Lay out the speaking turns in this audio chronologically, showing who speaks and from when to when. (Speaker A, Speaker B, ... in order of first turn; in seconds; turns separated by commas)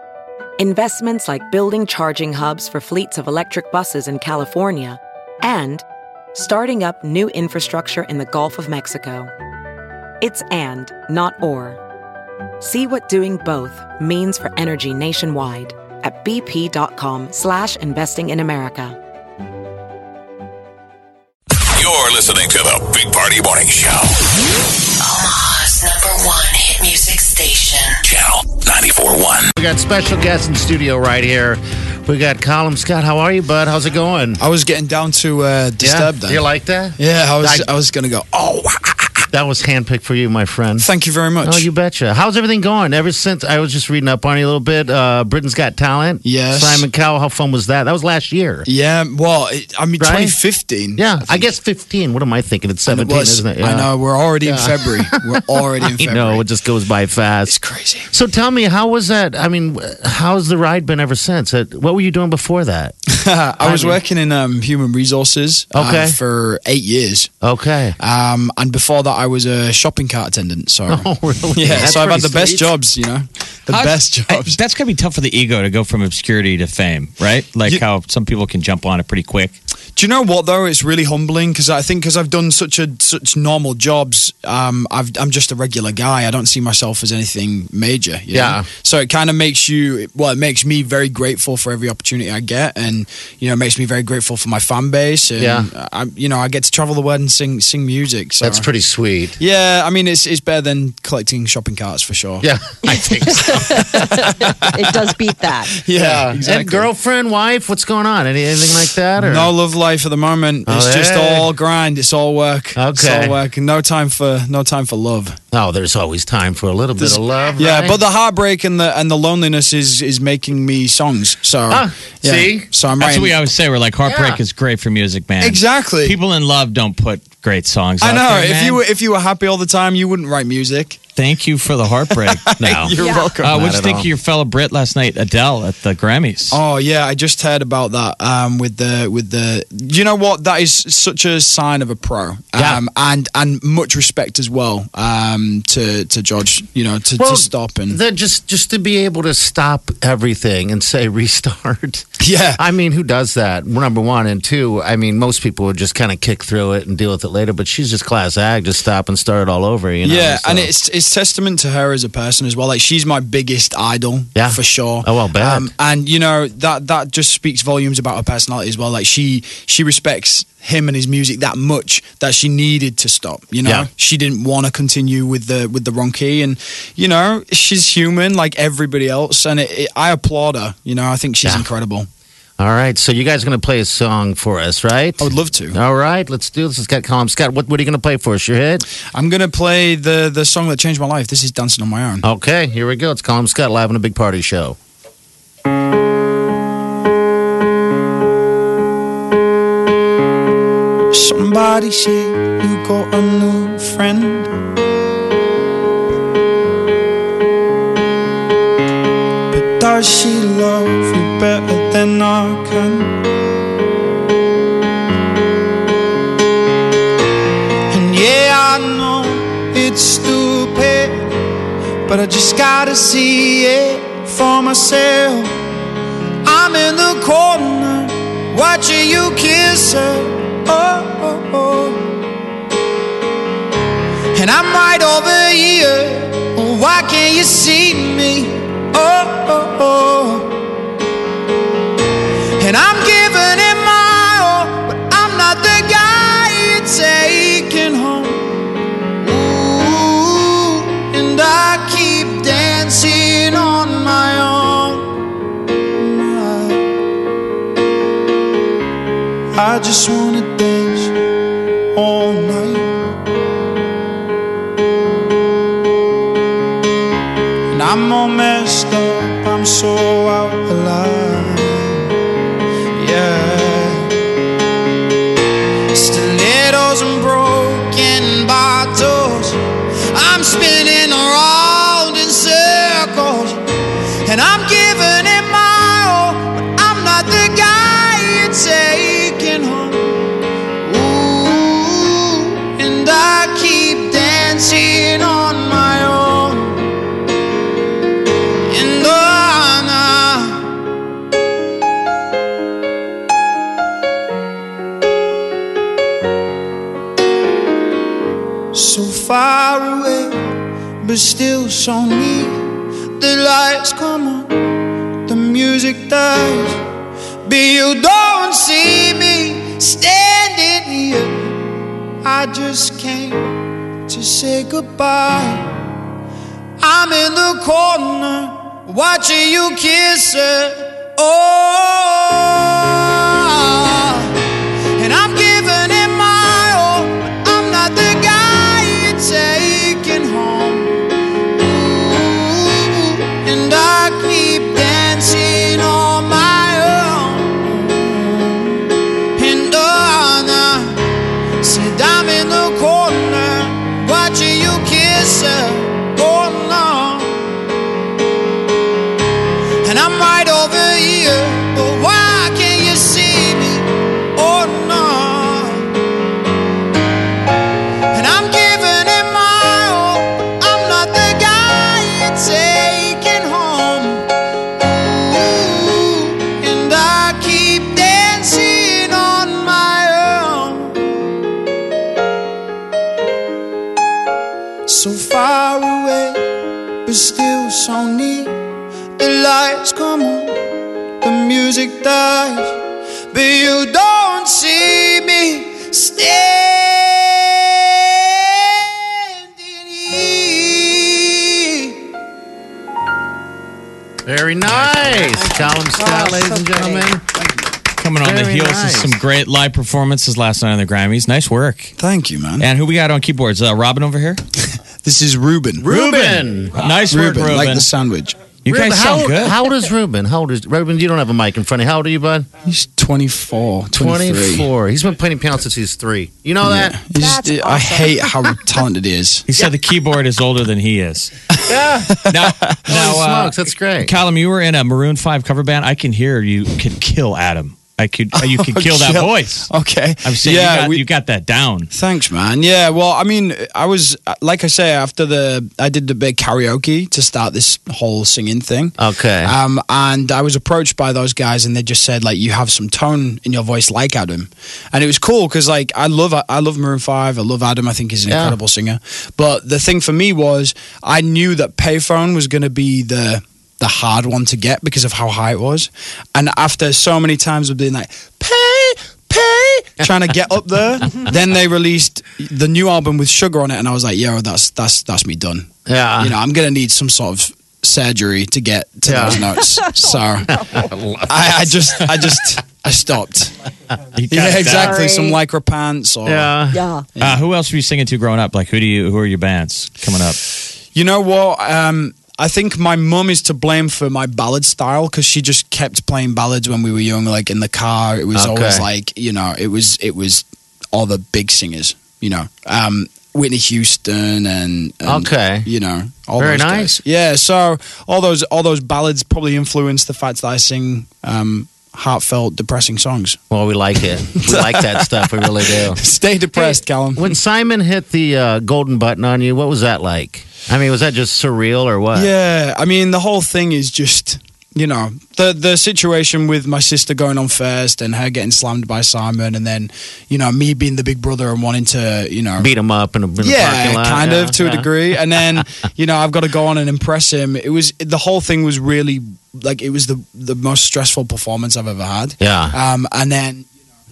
Speaker A: 0.6-5.8, Speaker A: 6.3-9.3, Speaker A: 10.2-11.8, Speaker A: 12.6-19.0, Speaker B: 21.7-24.1, Speaker C: 25.0-28.0, Speaker B: 28.1-29.5, Speaker D: 29.6-34.4, Speaker E: 34.4-36.4, Speaker D: 35.8-37.7, Speaker E: 37.0-39.1, Speaker D: 39.3-40.9, Speaker E: 40.8-41.7, Speaker D: 41.4-48.7, Speaker E: 46.2-46.9, Speaker E: 48.6-51.5, Speaker D: 50.0-50.4, Speaker D: 50.9-53.9, Speaker E: 52.9-56.5, Speaker D: 54.5-55.4, Speaker D: 55.9-57.6, Speaker E: 57.5-58.1, Speaker D: 58.1-63.0, Speaker E: 63.1-67.3, Speaker D: 63.6-64.0, Speaker D: 65.7-66.2, Speaker D: 67.4-68.0, Speaker E: 68.0-74.6, Speaker D: 70.9-72.7, Speaker F: 73.7-79.5, Speaker E: 80.0-98.7, Speaker D: 88.3-88.7, Speaker D: 95.3-95.7, Speaker D: 98.4-99.3, Speaker E: 99.4-102.5, Speaker D: 102.4-103.9, Speaker G: 103.2-105.8, Speaker E: 103.5-105.1, Speaker E: 105.8-106.9, Speaker D: 105.9-109.5, Speaker E: 109.2-115.3, Speaker D: 110.7-111.5, Speaker D: 112.7-113.4, Speaker D: 115.5-118.0, Speaker E: 117.0-123.4, Speaker D: 121.7-122.7, Speaker F: 123.0-128.8, Speaker D: 124.0-124.4, Speaker E: 125.4-126.2, Speaker E: 128.0-131.0, Speaker F: 131.2-136.6, Speaker E: 132.3-133.6, Speaker D: 132.6-134.1, Speaker G: 133.0-133.3, Speaker E: 136.5-148.0, Speaker D: 142.6-142.8, Speaker D: 147.2-152.0, Speaker E: 152.2-152.6, Speaker D: 152.6-160.7, Speaker E: 160.0-182.1, Speaker D: 164.3-165.7, Speaker D: 181.4-181.7, Speaker D: 182.6-188.8, Speaker E: 185.2-185.8, Speaker E: 189.1-192.2, Speaker D: 192.2-194.8, Speaker E: 201.1-204.5, Speaker E: 209.5-213.2, Speaker E: 217.9-221.3, Speaker E: 222.1-225.6, Speaker E: 226.4-232.2, Speaker E: 234.3-240.6, Speaker E: 242.6-248.7, Speaker E: 249.2-255.2, Speaker E: 256.0-256.8, Speaker E: 259.5-261.1, Speaker E: 261.9-262.9, Speaker E: 267.7-272.1, Speaker E: 272.9-274.1, Speaker E: 275.9-283.6, Speaker E: 284.2-296.9, Speaker E: 298.7-300.8, Speaker E: 308.7-314.6, Speaker E: 315.3-316.8, Speaker E: 317.4-321.6, Speaker E: 322.2-323.5, Speaker E: 324.1-325.8, Speaker E: 326.8-334.3, Speaker E: 335.0-351.0, Speaker E: 351.6-357.6, Speaker E: 359.8-365.9, Speaker E: 368.1-374.3, Speaker E: 374.8-381.2, Speaker E: 384.9-388.5, Speaker E: 389.2-390.6, Speaker E: 391.2-392.8, Speaker E: 393.3-402.0, Speaker D: 404.2-407.2, Speaker E: 404.6-406.5, Speaker G: 405.9-407.1, Speaker F: 407.9-411.9, Speaker D: 408.2-409.2, Speaker E: 412.0-412.7, Speaker F: 412.6-414.4, Speaker E: 415.0-415.8, Speaker D: 415.8-416.9, Speaker F: 415.9-417.9, Speaker E: 416.8-418.3, Speaker F: 418.6-419.5, Speaker D: 418.6-422.5, Speaker E: 422.6-424.7, Speaker D: 423.9-427.0, Speaker E: 426.6-429.5, Speaker G: 427.1-428.7, Speaker F: 429.5-431.3, Speaker E: 431.5-432.9, Speaker D: 431.7-432.2, Speaker F: 432.3-439.7, Speaker D: 432.9-434.1, Speaker E: 438.3-441.0, Speaker F: 440.2-441.9, Speaker E: 441.9-475.7, Speaker D: 449.0-449.5, Speaker D: 458.3-458.6, Speaker D: 475.9-476.3, Speaker E: 476.2-480.5, Speaker D: 479.1-479.5, Speaker G: 479.6-480.9, Speaker D: 480.6-481.9, Speaker E: 481.3-483.5, Speaker F: 484.1-485.0, Speaker E: 484.3-486.6, Speaker G: 484.7-485.4, Speaker D: 486.2-486.8, Speaker G: 486.7-487.1, Speaker E: 487.1-487.4, Speaker F: 487.2-490.4, Speaker E: 490.9-513.4, Speaker D: 498.3-498.9, Speaker D: 505.1-505.7, Speaker D: 506.4-507.0, Speaker D: 513.5-516.0, Speaker E: 514.5-517.4, Speaker D: 516.5-522.3, Speaker E: 522.1-532.7, Speaker D: 532.6-534.9, Speaker E: 533.4-543.6, Speaker D: 542.4-542.8